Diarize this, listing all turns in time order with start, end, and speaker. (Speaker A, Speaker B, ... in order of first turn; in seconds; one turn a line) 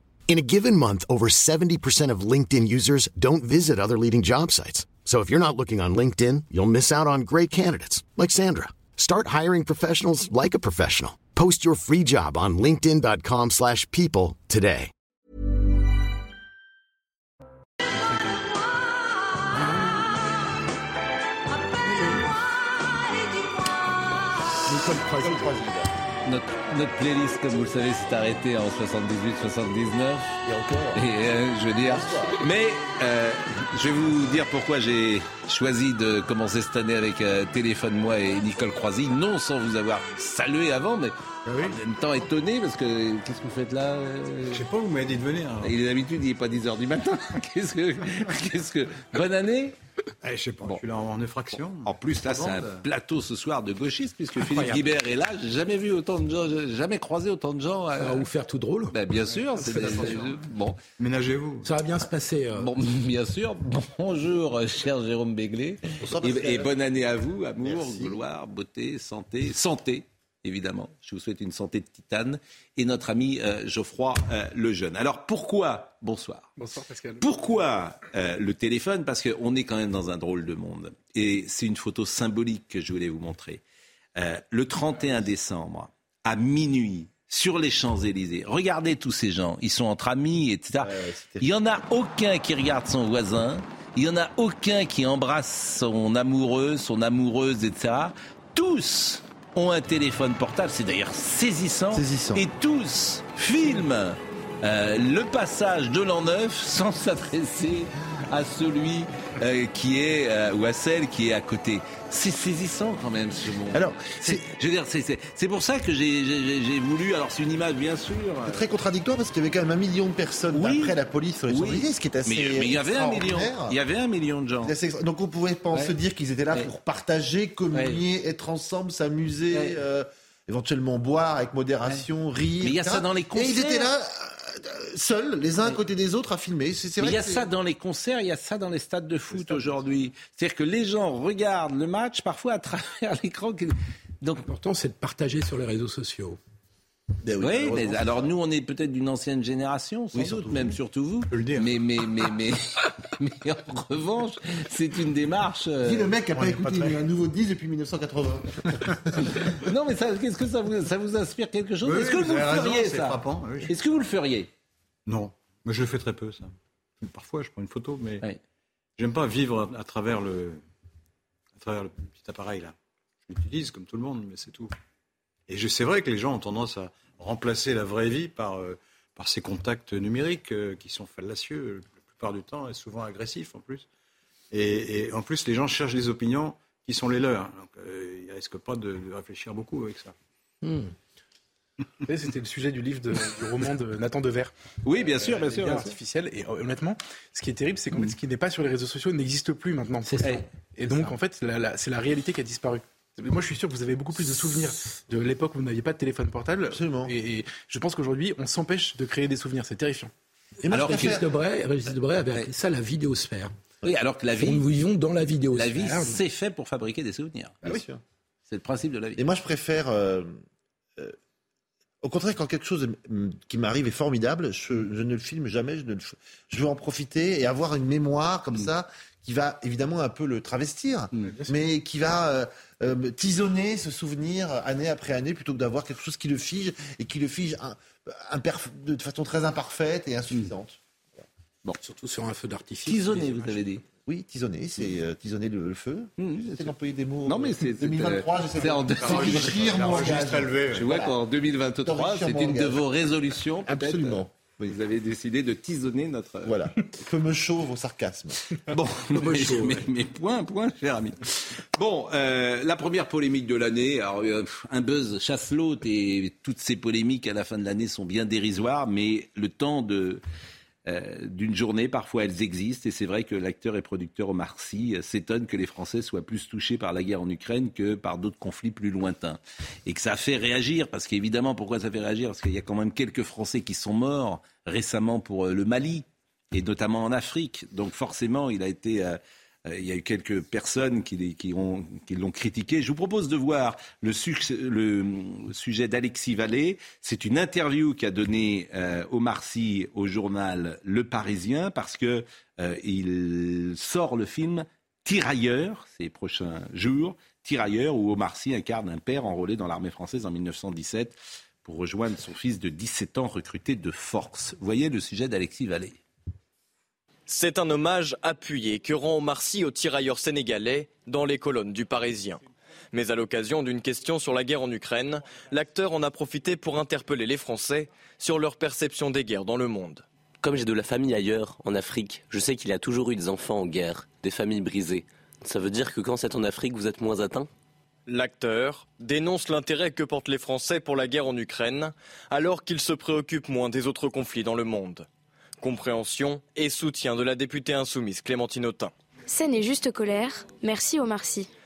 Speaker A: 0.3-14.9
Speaker B: 19.5-20.1
Speaker B: 21.9-22.2
Speaker B: 24.7-25.6
Speaker C: 25.1-25.9
Speaker D: 26.2-30.3
Speaker C: 30.4-31.1
Speaker D: 30.9-44.7
Speaker C: 31.8-32.4
Speaker E: 41.5-41.8
Speaker E: 44.5-45.8
Speaker D: 45.6-49.8
Speaker E: 50.2-52.8
Speaker D: 51.9-58.3
Speaker E: 54.4-55.0
Speaker B: 58.0-59.0
Speaker D: 58.9-60.8
Speaker B: 59.6-60.3
Speaker E: 59.6-60.2
Speaker E: 61.0-61.7
Speaker B: 61.6-62.7
Speaker D: 62.5-76.5
Speaker C: 66.0-66.7
Speaker C: 67.6-68.2
Speaker F: 76.6-77.3
Speaker D: 77.2-83.6
Speaker D: 84.2-118.6
Speaker C: 90.8-91.8
Speaker C: 101.9-102.5
Speaker C: 113.7-114.5
Speaker C: 118.5-123.8
Speaker D: 120.5-121.0
Speaker D: 121.5-124.7
Speaker C: 124.6-137.5
Speaker D: 127.7-128.0
Speaker D: 129.5-129.8
Speaker D: 132.6-133.9
Speaker D: 137.0-144.4
Speaker B: 144.4-146.4
Speaker C: 147.2-148.3
Speaker D: 147.4-156.1
Speaker C: 150.1-150.8
Speaker E: 151.3-151.7
Speaker C: 155.8-159.4
Speaker E: 156.3-157.0
Speaker D: 159.3-164.5
Speaker E: 161.8-163.8
Speaker E: 165.1-168.2
Speaker E: 169.0-170.6
Speaker E: 171.5-174.7
Speaker E: 175.5-183.9
Speaker E: 184.5-190.2
Speaker B: 190.6-190.9
Speaker F: 192.1-210.1
Speaker D: 194.8-195.9
Speaker B: 200.1-200.4
Speaker C: 206.7-207.1
Speaker C: 210.6-211.3
Speaker D: 210.7-211.2
Speaker B: 210.8-213.5
Speaker D: 213.8-214.7
Speaker B: 214.3-216.2
Speaker D: 215.5-217.7
Speaker C: 217.6-218.0
Speaker D: 218.5-219.2
Speaker C: 219.2-220.4
Speaker C: 222.0-240.8
Speaker B: 241.8-243.6
Speaker D: 242.9-243.8
Speaker C: 244.1-251.1
Speaker D: 246.2-246.7
Speaker D: 247.2-256.7
Speaker E: 248.9-251.1
Speaker C: 251.8-252.8
Speaker C: 253.7-254.8
Speaker C: 256.4-258.4
Speaker D: 258.7-270.2
Speaker B: 259.2-259.9
Speaker D: 270.9-316.0
Speaker G: 317.3-330.0
Speaker H: 330.4-337.5
Speaker G: 338.1-345.1
Speaker G: 345.6-348.9
Speaker I: 349.4-351.4